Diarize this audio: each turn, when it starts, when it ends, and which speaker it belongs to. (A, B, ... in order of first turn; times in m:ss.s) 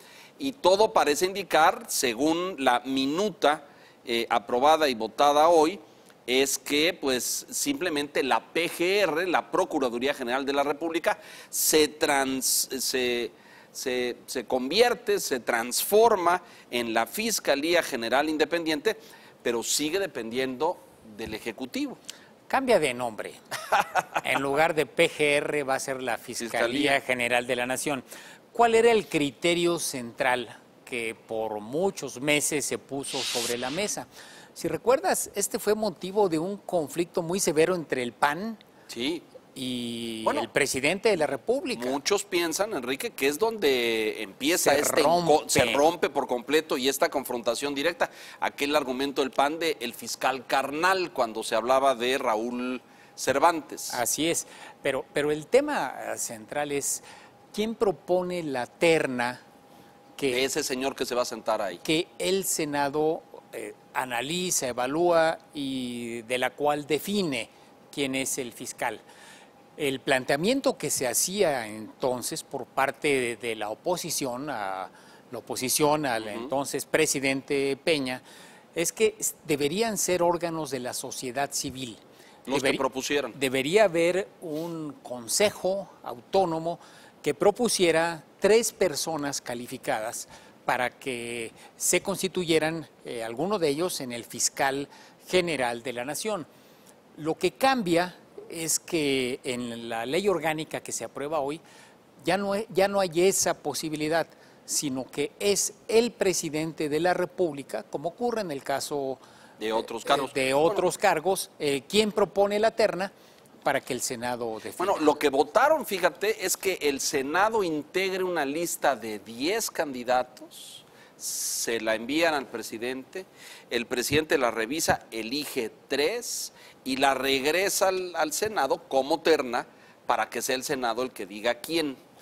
0:00.4-0:22.0 A
0:22.5-0:23.4 B
0:24.2-0:38.6 B
0:26.4-0:27.0 A
0:38.9-0:39.2 A
0:39.5-0:42.0 B
0:41.7-0:54.0 A
0:44.6-0:45.8 B
0:53.9-0:59.4 B
1:00.2-1:00.4 B
1:00.3-1:01.8 A
1:01.8-1:09.0 B
1:09.8-1:18.2 B
1:16.2-1:16.5 A
1:18.7-1:22.8 B
1:22.5-1:23.4 A
1:23.3-1:36.5 B
1:37.1-1:41.6 B
1:42.2-1:49.2 B
1:49.6-1:50.8 A
1:49.8-1:53.1 B
1:53.6-1:55.1 B
1:54.8-2:12.0 A